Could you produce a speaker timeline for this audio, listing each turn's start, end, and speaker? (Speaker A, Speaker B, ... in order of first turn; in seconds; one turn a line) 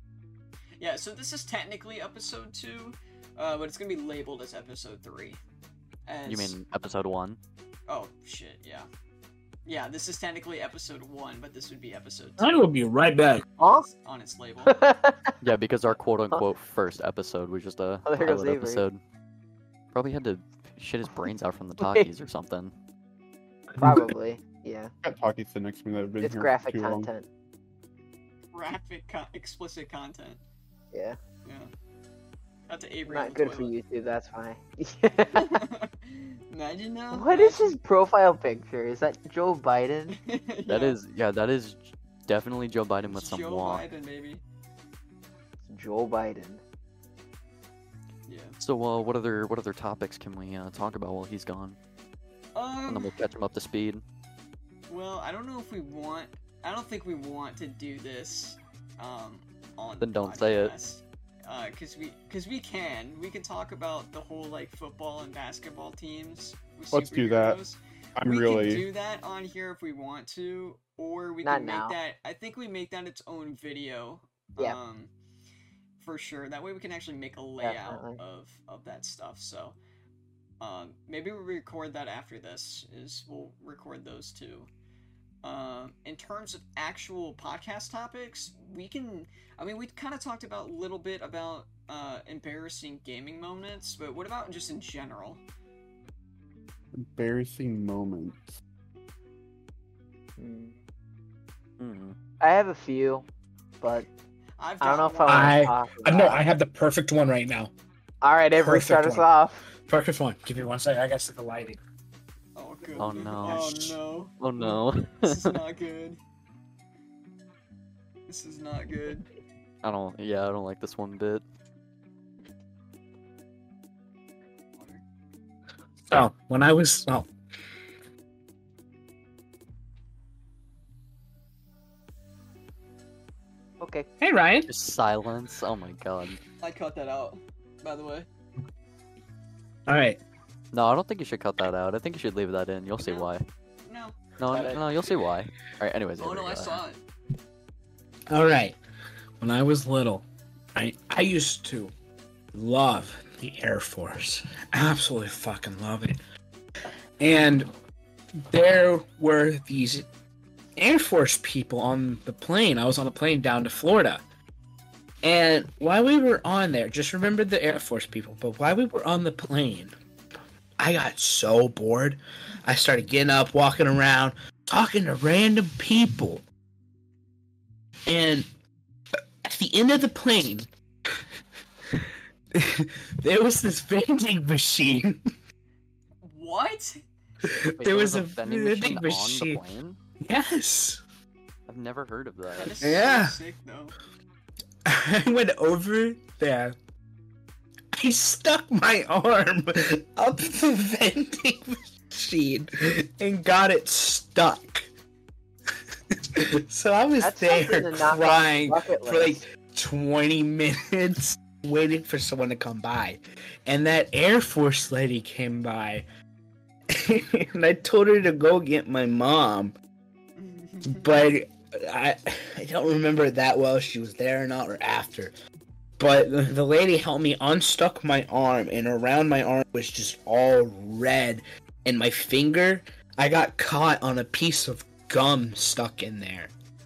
Speaker A: 0.8-5.4
Speaker A: 6.0-6.6
Speaker B: 6.2-7.4
Speaker A: 7.9-8.9
Speaker A: 9.6-12.5
Speaker C: 12.4-13.4
Speaker A: 13.6-14.8
Speaker D: 13.6-13.8
Speaker D: 14.6-15.3
Speaker B: 15.4-19.0
Speaker D: 18.0-18.8
Speaker B: 19.9-22.7
Speaker D: 21.8-22.1
Speaker C: 23.7-24.1
Speaker D: 23.8-24.9
Speaker E: 25.0-27.1
Speaker D: 26.2-27.3
Speaker A: 28.5-30.4
Speaker D: 30.9-31.2
Speaker A: 31.4-31.7
Speaker A: 32.7-33.7
Speaker D: 33.1-35.6
Speaker A: 35.3-37.8
Speaker D: 37.1-40.2
Speaker A: 40.1-41.0
Speaker B: 40.7-43.8
Speaker A: 43.1-44.4
Speaker D: 45.7-46.6
Speaker A: 48.3-48.6
Speaker B: 48.6-51.8
Speaker A: 52.5-53.1
Speaker B: 52.9-54.0
Speaker A: 54.9-75.1
Speaker B: 60.0-60.7
Speaker E: 66.9-67.6
Speaker E: 68.2-68.8
Speaker D: 71.4-72.0
Speaker A: 76.0-79.8
Speaker D: 77.6-78.2
Speaker A: 80.6-84.7
Speaker A: 85.4-95.4
Speaker E: 97.0-98.6
Speaker D: 100.4-100.8
Speaker B: 101.8-102.2
Speaker D: 102.4-103.2
Speaker D: 103.8-104.1
Speaker A: 104.6-105.6
Speaker D: 104.8-106.4
Speaker C: 105.3-107.7
Speaker D: 108.2-109.7
Speaker C: 108.6-111.8
Speaker A: 112.5-116.2
Speaker B: 113.0-115.6
Speaker A: 118.3-119.3
Speaker B: 119.8-121.4
Speaker A: 124.7-125.0
Speaker C: 126.1-127.3
Speaker D: 133.8-134.1
Speaker C: 134.2-134.7
Speaker B: 134.7-136.4
Speaker A: 136.6-138.3
Speaker C: 139.9-140.2
Speaker B: 140.7-143.4
Speaker A: 143.0-143.3
Speaker A: 143.8-144.9
Speaker B: 144.4-146.8
Speaker A: 146.2-147.0
Speaker C: 148.3-148.8
Speaker C: 149.4-151.9
Speaker C: 152.5-156.2
Speaker C: 157.2-157.7
Speaker C: 158.5-160.0
Speaker C: 160.8-164.2
Speaker C: 165.2-169.9
Speaker C: 170.8-176.4
Speaker C: 178.1-178.4
Speaker C: 179.4-181.2
Speaker C: 181.9-185.2
Speaker A: 186.2-187.0
Speaker C: 187.4-189.6
Speaker B: 187.8-190.0
Speaker C: 190.2-191.0
Speaker B: 191.7-192.8
Speaker A: 192.6-193.9
Speaker C: 192.8-193.4
Speaker C: 194.8-196.7
Speaker C: 197.9-204.9
Speaker C: 206.1-216.0
Speaker D: 207.2-209.4
Speaker C: 216.9-219.7
Speaker A: 220.4-221.1
Speaker C: 220.8-225.3
Speaker C: 226.0-236.5